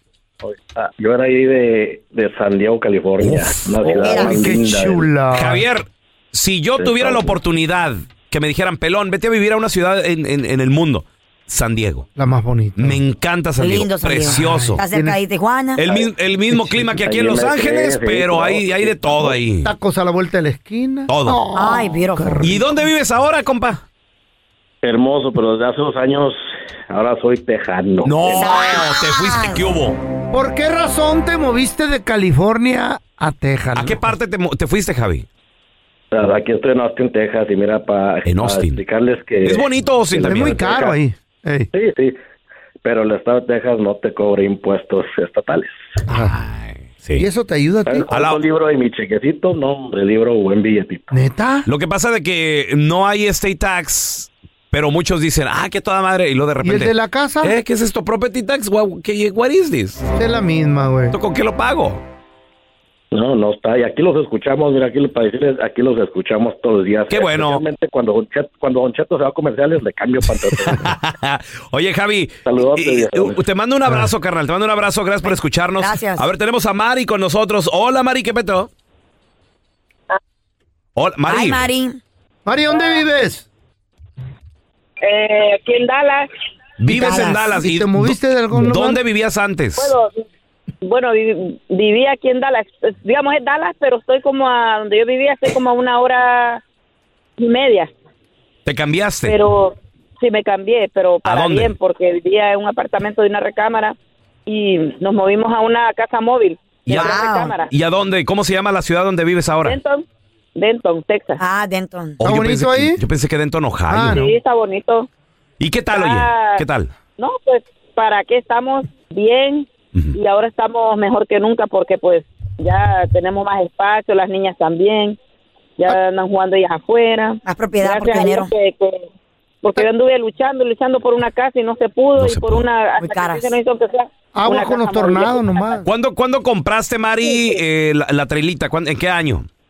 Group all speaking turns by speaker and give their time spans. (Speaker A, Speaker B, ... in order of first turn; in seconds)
Speaker A: 0.4-5.1, 6.8-7.4, 15.9-16.1, 16.7-19.3, 24.8-28.5, 36.1-41.0, 41.7-42.2, 42.8-45.8, 47.9-51.1, 63.1-70.9, 72.5-73.4
Speaker B: 3.2-3.8, 5.3-12.1, 12.8-14.8, 15.8-19.7, 21.1-21.4, 22.4-23.8, 28.1-30.0, 33.8-35.3, 38.2-38.8, 39.4-40.6, 46.1-47.3, 48.1-48.4, 51.7-60.0, 61.1-62.0, 67.1-67.6, 70.6-78.7, 81.0-81.7, 86.8-90.0, 98.7-99.4, 101.2-101.8, 106.9-109.8, 112.2-114.3, 115.6-116.9, 132.2-132.7, 135.8-139.5
Speaker C: 4.0-4.4, 13.6-15.8, 21.5-22.5, 28.4-29.6, 75.2-76.3, 81.3-82.0, 86.9-87.5, 106.9-107.5, 111.4-112.2, 127.5-128.5, 133.0-133.5
Speaker D: 4.1-5.7, 12.2-13.0, 14.2-15.2, 19.6-22.7, 30.3-34.0, 40.2-41.7, 46.1-46.4, 47.2-48.1, 51.1-51.7, 56.6-57.5, 60.1-61.2, 82.5-83.5, 87.6-89.0, 112.2-113.0, 113.9-114.3, 134.3-135.9
Speaker E: 85.0-86.3, 89.8-90.1, 90.8-96.6, 97.4-97.9, 99.2-107.7, 109.6-111.4, 114.1-115.1, 115.9-116.7, 117.2-125.2, 125.8-129.1, 129.6-135.8, 137.2-137.6